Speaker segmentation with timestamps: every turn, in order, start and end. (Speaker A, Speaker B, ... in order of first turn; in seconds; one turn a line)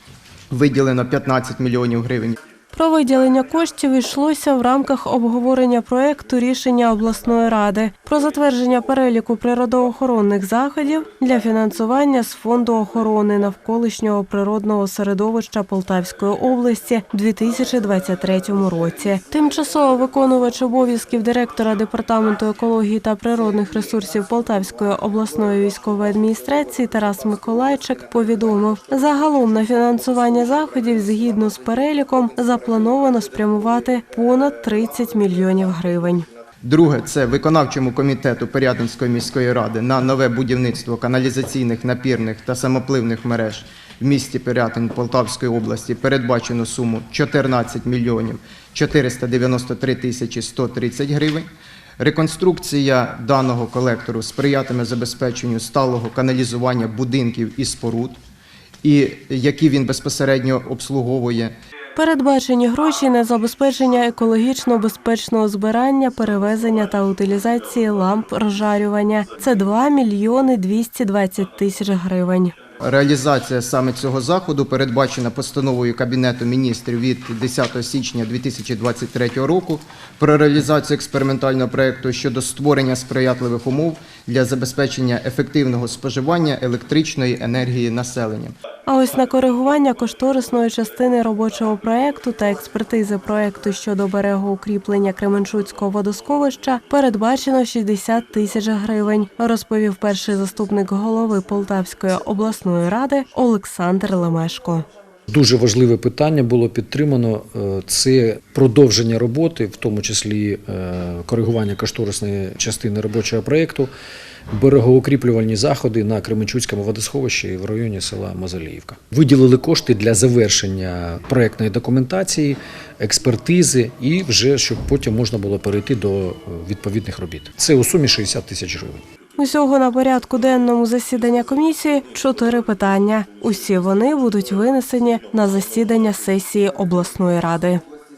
Speaker A: 0.5-2.4
Speaker B: 2.7-36.3
Speaker A: 36.6-51.5
Speaker A: 52.0-58.2
Speaker A: 58.8-61.5
Speaker B: 62.0-72.5
Speaker A: 72.8-88.5
Speaker B: 88.9-104.9
Speaker C: 105.3-113.9
Speaker C: 114.5-129.0
Speaker B: 129.4-137.8